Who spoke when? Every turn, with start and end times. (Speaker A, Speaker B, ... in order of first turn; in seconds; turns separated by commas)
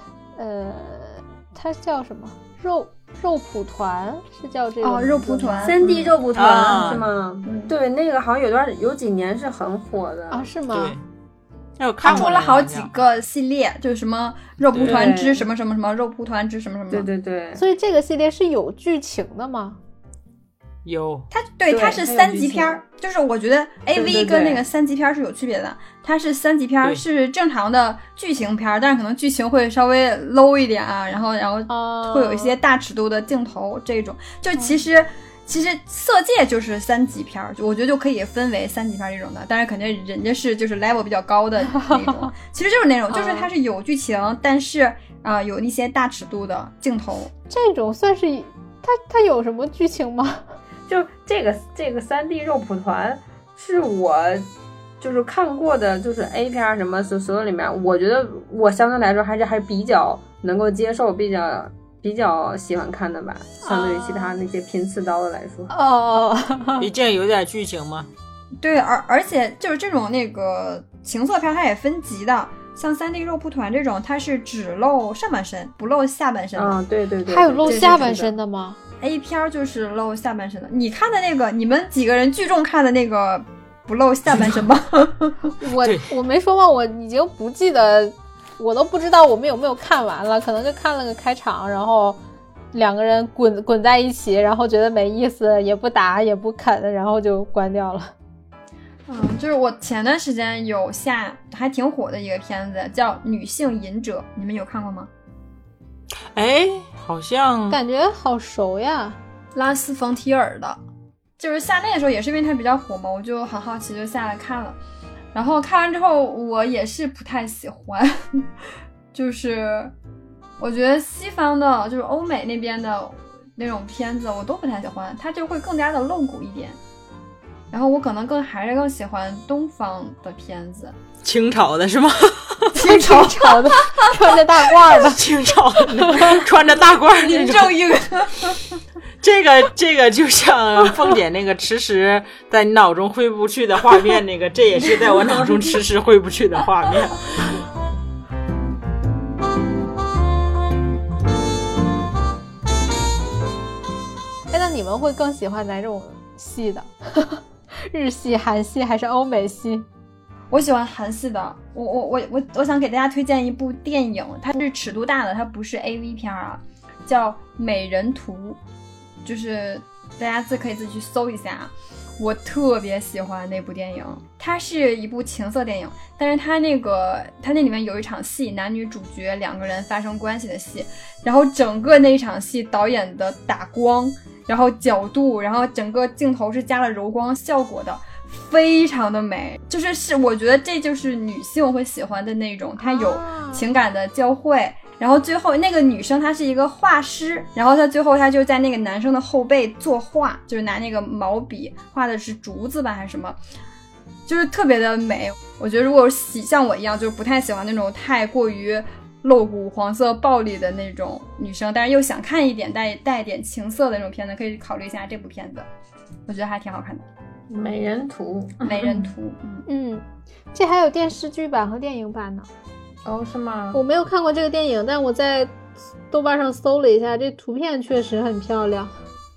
Speaker A: 0.4-5.8, Speaker B: 4.8-5.9, Speaker C: 5.6-10.5, Speaker D: 6.3-7.0, Speaker B: 6.5-7.7, Speaker A: 10.3-11.0, Speaker D: 10.7-11.0, Speaker D: 11.8-12.9, Speaker B: 12.0-17.1, Speaker D: 14.7-15.1, Speaker C: 14.8-15.5, Speaker C: 16.9-17.6, Speaker A: 17.6-19.8, Speaker D: 20.9-21.3, Speaker B: 21.3-47.3, Speaker C: 21.7-22.8, Speaker C: 23.9-24.6, Speaker A: 31.7-32.6, Speaker A: 41.7-42.3, Speaker A: 43.1-43.5, Speaker A: 47.5-50.6, Speaker C: 50.9-54.5, Speaker C: 55.0-65.7, Speaker A: 63.6-64.4, Speaker A: 65.7-66.9, Speaker D: 66.8-68.1, Speaker B: 68.6-76.8, Speaker C: 76.5-78.3, Speaker A: 77.3-78.8, Speaker B: 77.7-78.1, Speaker B: 79.0-85.5, Speaker A: 85.6-92.2, Speaker D: 85.8-86.1, Speaker A: 92.7-98.1, Speaker B: 99.1-105.1, Speaker D: 106.3-107.8, Speaker A: 107.7-109.2, Speaker B: 109.5-110.8, Speaker B: 111.4-114.8, Speaker B: 115.3-118.5, Speaker B: 119.1-119.9, Speaker B: 120.6-126.8, Speaker B: 127.7-130.9, Speaker D: 131.2-132.8, Speaker B: 132.7-134.4, Speaker A: 132.8-135.2, Speaker D: 135.0-137.8, Speaker B: 137.2-138.6, Speaker D: 139.2-147.6, Speaker A: 154.5-159.9, Speaker B: 160.5-168.6, Speaker B: 169.2-203.4, Speaker A: 192.8-193.7, Speaker B: 204.3-215.7, Speaker B: 216.3-217.1, Speaker C: 217.5-219.1, Speaker B: 218.6-219.7, Speaker A: 219.7-222.5, Speaker C: 223.1-223.8, Speaker A: 223.7-225.6, Speaker A: 226.1-229.0